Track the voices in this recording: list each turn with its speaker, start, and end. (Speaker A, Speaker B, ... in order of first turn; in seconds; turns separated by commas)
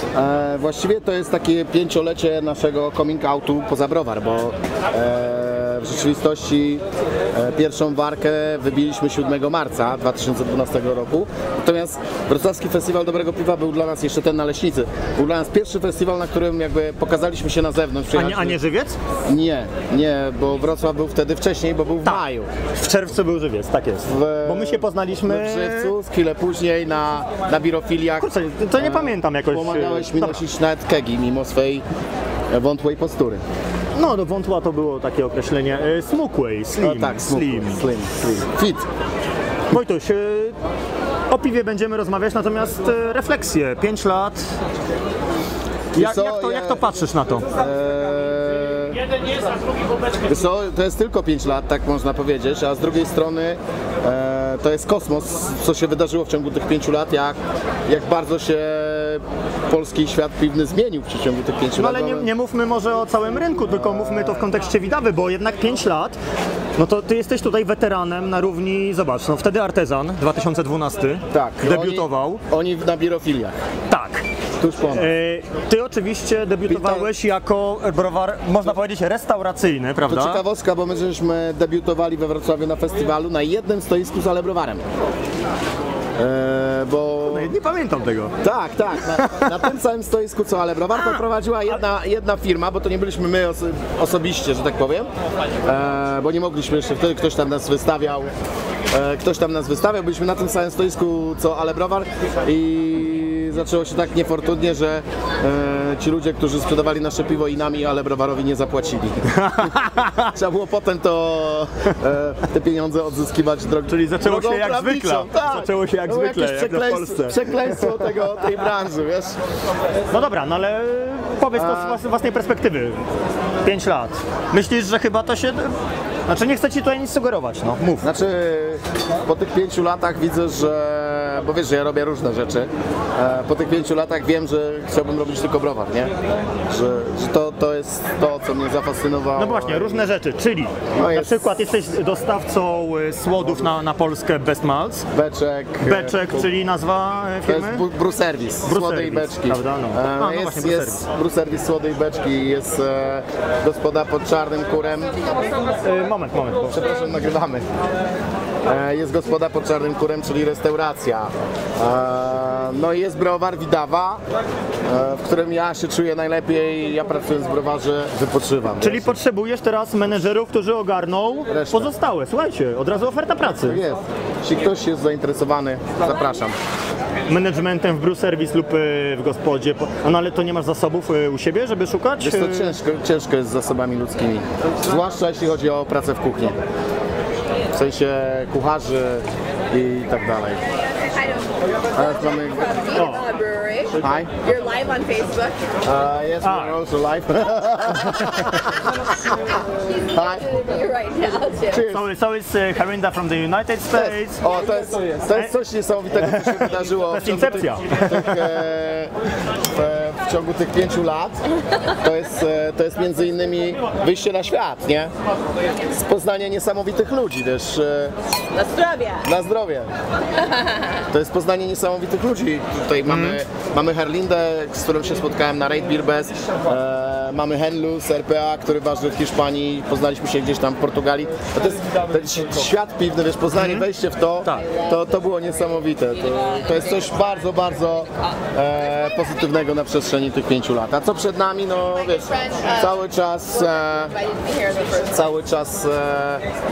Speaker A: 0.1-18.6, Speaker B: 18.1-19.0, Speaker A: 19.3-22.5, Speaker B: 22.0-25.9, Speaker A: 24.0-31.8, Speaker B: 28.2-30.4, Speaker A: 32.5-33.4, Speaker B: 34.0-37.9, Speaker A: 36.8-38.9, Speaker B: 39.7-40.6, Speaker B: 41.3-44.5, Speaker B: 45.9-47.5, Speaker A: 46.0-46.9, Speaker A: 47.5-49.0, Speaker A: 50.3-62.3, Speaker B: 61.8-66.2, Speaker A: 63.7-64.5, Speaker B: 66.8-72.4, Speaker A: 71.3-73.5, Speaker B: 73.9-74.2, Speaker A: 74.6-75.1, Speaker B: 74.9-80.4, Speaker A: 76.7-77.1, Speaker A: 80.1-84.8, Speaker A: 86.2-87.5, Speaker B: 87.3-88.3, Speaker A: 88.4-95.1, Speaker B: 89.0-89.7, Speaker B: 91.0-91.2, Speaker A: 95.7-98.3, Speaker A: 98.9-109.2, Speaker B: 109.3-110.3, Speaker A: 110.3-119.4, Speaker B: 113.9-118.0, Speaker B: 120.1-123.0, Speaker A: 121.5-122.0, Speaker B: 123.6-125.7, Speaker B: 126.3-128.1, Speaker A: 128.0-136.1, Speaker A: 136.7-140.1, Speaker B: 139.4-145.1, Speaker A: 140.9-141.6, Speaker A: 145.1-146.5, Speaker B: 145.8-147.9, Speaker A: 147.4-155.3, Speaker B: 148.7-151.1, Speaker B: 155.8-156.8, Speaker A: 156.7-157.7, Speaker A: 158.7-164.2, Speaker A: 164.8-169.1, Speaker B: 168.8-173.8, Speaker A: 171.5-171.9, Speaker A: 173.6-176.6, Speaker B: 177.3-182.8, Speaker A: 182.2-186.6, Speaker A: 187.7-190.6, Speaker C: 191.2-191.5, Speaker A: 192.0-192.8, Speaker C: 192.7-195.6, Speaker B: 192.9-193.3, Speaker A: 194.0-194.3, Speaker A: 195.8-198.8, Speaker B: 196.4-196.8, Speaker B: 198.1-198.5, Speaker A: 200.0-200.6, Speaker C: 200.6-201.7, Speaker A: 201.7-202.1, Speaker B: 201.9-204.4, Speaker A: 203.9-209.1, Speaker B: 206.3-208.4, Speaker A: 209.7-211.4, Speaker A: 212.0-215.1, Speaker A: 215.9-218.2, Speaker C: 218.6-219.1, Speaker A: 219.2-219.9, Speaker A: 221.1-244.2, Speaker B: 223.1-223.4, Speaker B: 233.5-233.9, Speaker C: 244.3-245.0, Speaker A: 245.0-246.4